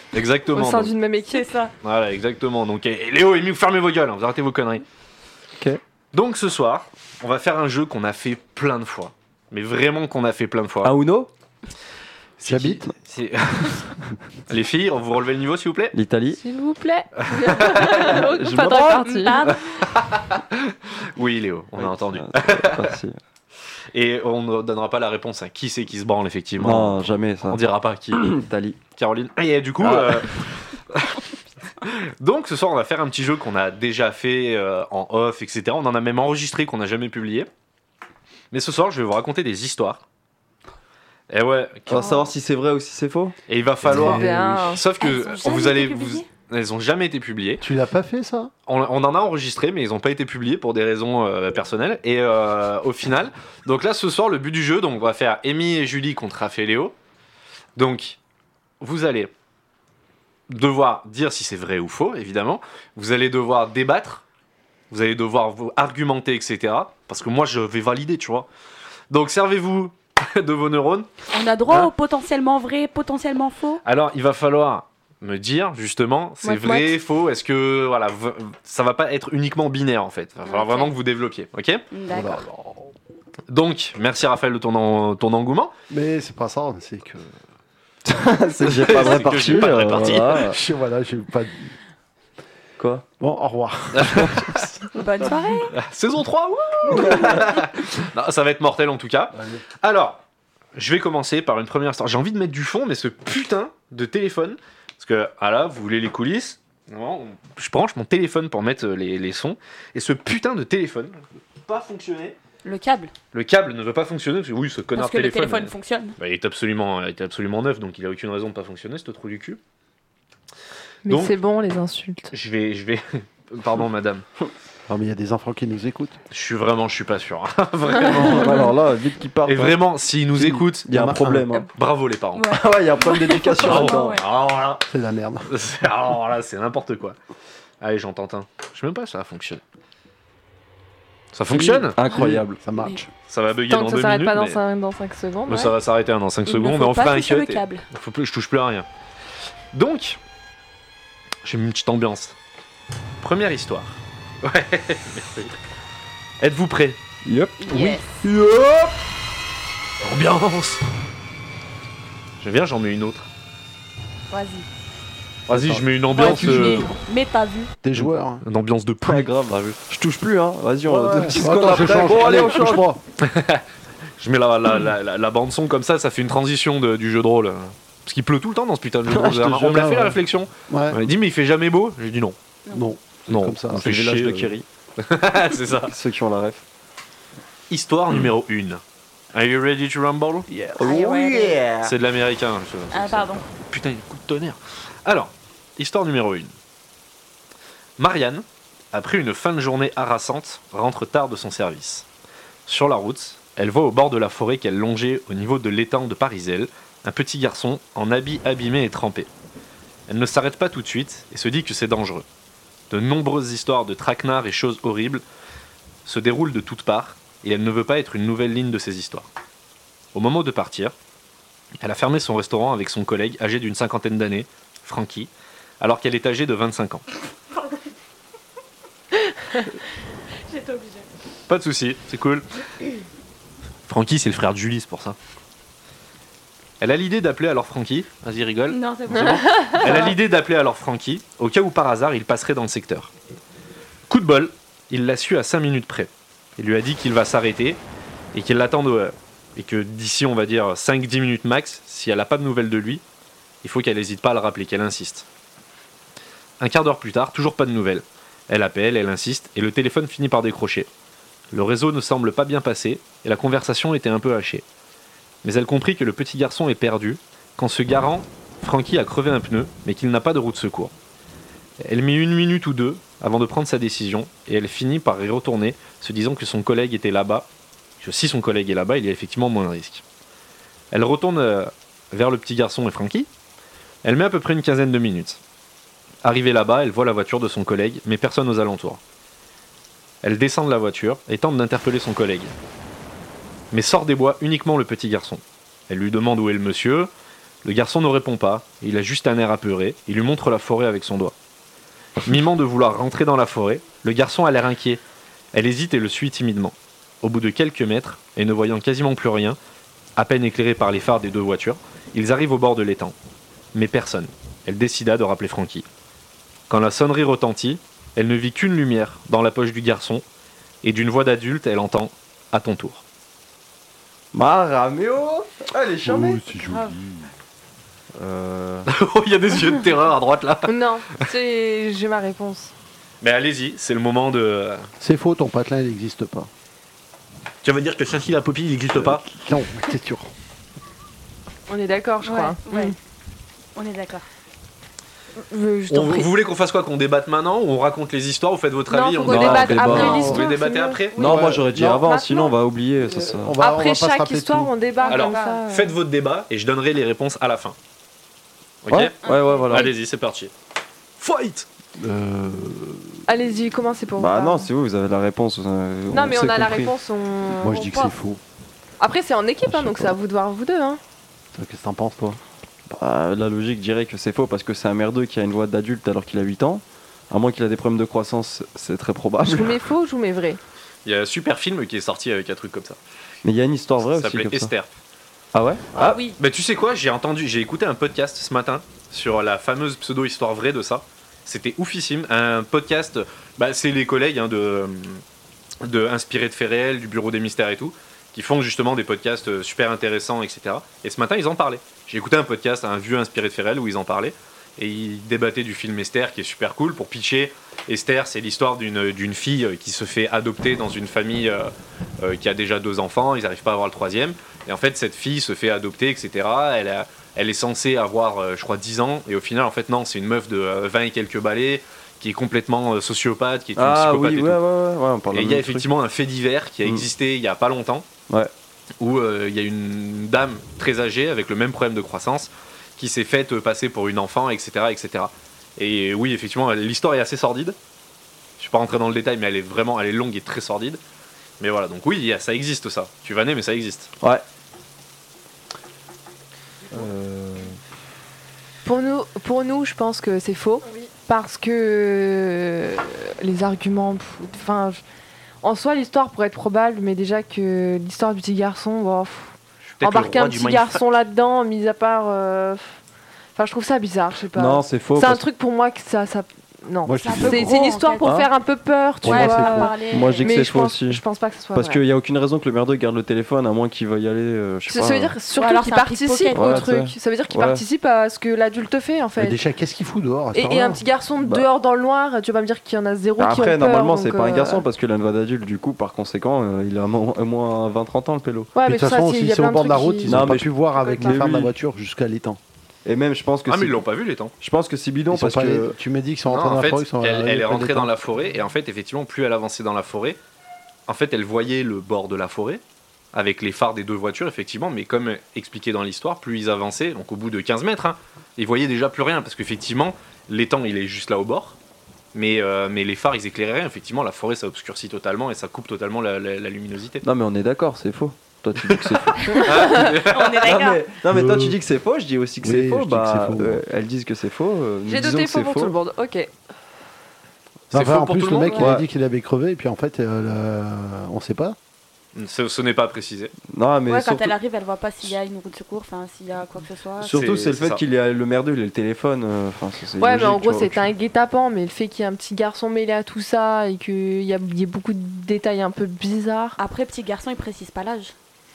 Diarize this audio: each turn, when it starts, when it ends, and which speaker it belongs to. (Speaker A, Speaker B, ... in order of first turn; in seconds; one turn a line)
Speaker A: 0.1-0.9
Speaker B: 0.5-1.4
Speaker C: 1.3-1.7
Speaker A: 1.8-4.8
Speaker A: 6.1-10.9
Speaker D: 10.8-11.3
Speaker A: 12.4-13.9
Speaker D: 12.5-12.8
Speaker E: 12.5-12.8
Speaker A: 14.5-15.9
Speaker D: 15.9-16.4
Speaker B: 16.4-19.4
Speaker D: 18.3-19.2
Speaker C: 18.9-19.8
Speaker A: 19.8-22.9
Speaker D: 21.8-23.2
Speaker A: 23.9-28.3
Speaker D: 26.6-27.6
Speaker D: 28.1-28.8
Speaker A: 28.9-31.2
Speaker D: 29.8-30.4
Speaker A: 31.8-37.5
Speaker A: 38.5-40.0
Speaker A: 41.3-42.2
Speaker D: 41.9-43.4
Speaker A: 43.5-47.6
Speaker E: 43.9-44.7
Speaker D: 43.9-44.2
Speaker B: 43.9-44.8
Speaker C: 45.0-46.3
Speaker E: 47.6-48.5
Speaker A: 48.7-56.9
Speaker A: 57.8-58.2
Speaker A: 58.8-59.3
Speaker A: 60.5-64.2
Speaker A: 64.9-68.5
Speaker A: 69.1-71.1
Speaker C: 71.3-73.8
Speaker A: 73.8-81.8
Speaker B: 76.4-76.9
Speaker C: 80.5-80.9
Speaker C: 81.9-82.4
Speaker E: 82.1-82.9
Speaker A: 83.5-85.7
Speaker E: 85.9-87.3
Speaker D: 88.0-90.6
Speaker A: 88.7-90.4
Speaker E: 90.3-91.7
Speaker D: 92.8-93.0
Speaker E: 93.2-94.9
Speaker A: 94.0-94.7
Speaker C: 94.9-95.7
Speaker A: 95.7-100.2
Speaker E: 99.3-99.6
Speaker A: 100.7-112.4
Speaker C: 112.6-113.1
Speaker A: 113.3-119.6
Speaker C: 114.9-116.2
Speaker B: 121.0-122.3
Speaker A: 121.1-121.3
Speaker A: 122.3-124.2
Speaker E: 124.9-126.2
Speaker A: 126.3-128.7
Speaker D: 128.0-129.8
Speaker A: 129.4-132.5
Speaker E: 130.4-131.4
Speaker D: 130.4-131.7
Speaker C: 132.3-134.2
Speaker D: 132.5-134.2
Speaker A: 133.6-134.8
Speaker E: 134.9-135.4
Speaker A: 135.5-137.2
Speaker A: 137.8-139.6
Speaker A: 141.3-142.0
Speaker D: 141.5-142.6
Speaker E: 142.0-143.1
Speaker A: 143.3-144.6
Speaker B: 143.7-145.7
Speaker A: 145.5-148.9
Speaker C: 146.4-147.8
Speaker A: 149.7-150.2
Speaker A: 151.4-152.3
Speaker A: 153.2-155.5
Speaker A: 156.4-157.0
Speaker D: 157.2-158.9
Speaker C: 157.6-158.1
Speaker A: 160.0-160.8
Speaker A: 162.4-163.3
Speaker C: 164.3-164.7
Speaker E: 165.5-167.0
Speaker A: 165.5-166.9
Speaker C: 166.1-167.7
Speaker E: 167.8-168.4
Speaker A: 167.9-169.8
Speaker D: 169.0-172.8
Speaker E: 170.9-173.0
Speaker A: 173.2-173.6
Speaker A: 174.2-182.4
Speaker D: 179.1-179.8
Speaker E: 179.6-180.2
Speaker E: 180.7-181.0
Speaker E: 182.7-184.5
Speaker A: 183.3-185.9
Speaker D: 183.7-184.6
Speaker D: 185.9-186.6
Speaker A: 187.7-188.8
Speaker A: 189.3-190.5
Speaker D: 190.8-191.7
Speaker C: 190.8-191.8
Speaker A: 191.8-196.5
Speaker C: 192.9-193.4
Speaker A: 198.0-202.1
Speaker A: 202.7-209.3
Speaker A: 210.1-212.2
Speaker A: 212.9-215.2
Speaker A: 216.0-219.3
Speaker A: 220.1-220.9
Speaker A: 221.8-225.3
Speaker A: 225.8-227.0
Speaker C: 230.5-231.1
Speaker A: 231.5-232.4
Speaker A: 233.9-235.2
Speaker A: 236.8-243.1
Speaker C: 238.7-240.2
Speaker A: 244.1-247.8
Speaker A: 248.3-253.0
Speaker A: 253.6-255.2
Speaker A: 256.6-260.9
Speaker A: 261.5-264.6
Speaker A: 265.4-270.9
Speaker A: 271.8-277.5
Speaker A: 278.0-280.0
Speaker A: 280.9-283.3
Speaker A: 284.0-285.4
Speaker A: 286.2-289.0
Speaker A: 290.2-292.5
Speaker A: 293.7-297.1
Speaker A: 297.6-301.3
Speaker A: 302.2-305.0
Speaker A: 305.5-309.6
Speaker A: 310.2-313.1
Speaker A: 313.7-315.9
Speaker A: 316.7-320.2
Speaker A: 320.8-323.0
Speaker D: 324.3-326.5
Speaker E: 326.0-327.2
Speaker C: 326.7-326.9
Speaker D: 328.1-328.9
Speaker A: 328.9-330.7
Speaker B: 330.6-332.7
Speaker A: 333.2-334.9
Speaker E: 335.0-336.5
Speaker A: 337.6-339.2
Speaker E: 339.3-340.3
Speaker B: 341.7-342.9
Speaker C: 342.2-342.9
Speaker C: 343.7-344.2
Speaker B: 345.4-346.3
Speaker A: 345.9-351.3
Speaker B: 348.9-351.0
Speaker C: 349.2-350.5
Speaker D: 349.3-350.3
Speaker C: 351.1-351.4
Speaker D: 351.1-353.5
Speaker E: 351.2-352.1
Speaker B: 352.0-352.5
Speaker E: 353.2-354.7
Speaker B: 353.6-355.9
Speaker C: 355.0-355.6
Speaker A: 355.1-357.8
Speaker A: 358.8-359.1
Speaker D: 358.9-359.9
Speaker C: 359.3-359.6
Speaker A: 359.7-360.5
Speaker A: 361.2-361.6
Speaker E: 362.0-363.2
Speaker B: 363.3-364.7
Speaker D: 364.2-366.9
Speaker B: 366.1-368.1
Speaker E: 367.6-368.4
Speaker B: 369.0-371.0
Speaker E: 369.7-370.1
Speaker E: 371.5-372.4
Speaker D: 372.9-379.8
Speaker B: 379.4-380.6
Speaker A: 381.0-383.0
Speaker D: 383.4-384.7
Speaker A: 384.1-384.9
Speaker D: 385.5-385.9
Speaker C: 385.9-386.4
Speaker A: 385.9-395.2
Speaker A: 395.8-424.6
Speaker D: 423.8-425.9
Speaker A: 425.3-428.1
Speaker A: 429.0-437.8
Speaker A: 438.6-441.0
Speaker A: 441.6-444.1
Speaker D: 446.9-447.8
Speaker B: 448.8-455.0
Speaker B: 455.6-463.0
Speaker A: 459.9-461.0
Speaker B: 463.6-472.0
Speaker D: 464.5-465.4
Speaker E: 467.0-467.8
Speaker C: 467.2-468.3
Speaker D: 468.2-468.5
Speaker E: 469.2-470.0
Speaker C: 469.2-470.5
Speaker D: 470.1-471.2
Speaker D: 471.7-475.4
Speaker B: 474.9-479.6
Speaker C: 475.5-476.8
Speaker D: 476.5-477.8
Speaker E: 479.4-481.0
Speaker B: 480.5-484.8
Speaker D: 481.4-481.6
Speaker D: 483.4-488.7
Speaker B: 488.7-491.4
Speaker E: 488.8-492.6
Speaker D: 490.2-491.7
Speaker D: 493.0-494.0
Speaker A: 493.7-494.5
Speaker D: 494.6-496.0
Speaker E: 495.3-498.1
Speaker A: 496.5-500.4
Speaker A: 501.1-502.8
Speaker A: 503.3-511.8
Speaker A: 512.3-517.2
Speaker D: 517.2-519.9
Speaker A: 518.9-520.7
Speaker C: 519.6-521.0
Speaker D: 520.6-525.9
Speaker E: 521.3-521.8
Speaker E: 522.6-523.8
Speaker B: 525.0-526.5
Speaker A: 527.9-528.8
Speaker E: 527.9-531.8
Speaker D: 528.7-529.0
Speaker A: 532.3-533.5
Speaker D: 533.7-534.5
Speaker C: 534.1-537.4
Speaker D: 537.2-541.1
Speaker A: 537.3-538.0
Speaker B: 540.2-546.8
Speaker C: 546.8-548.3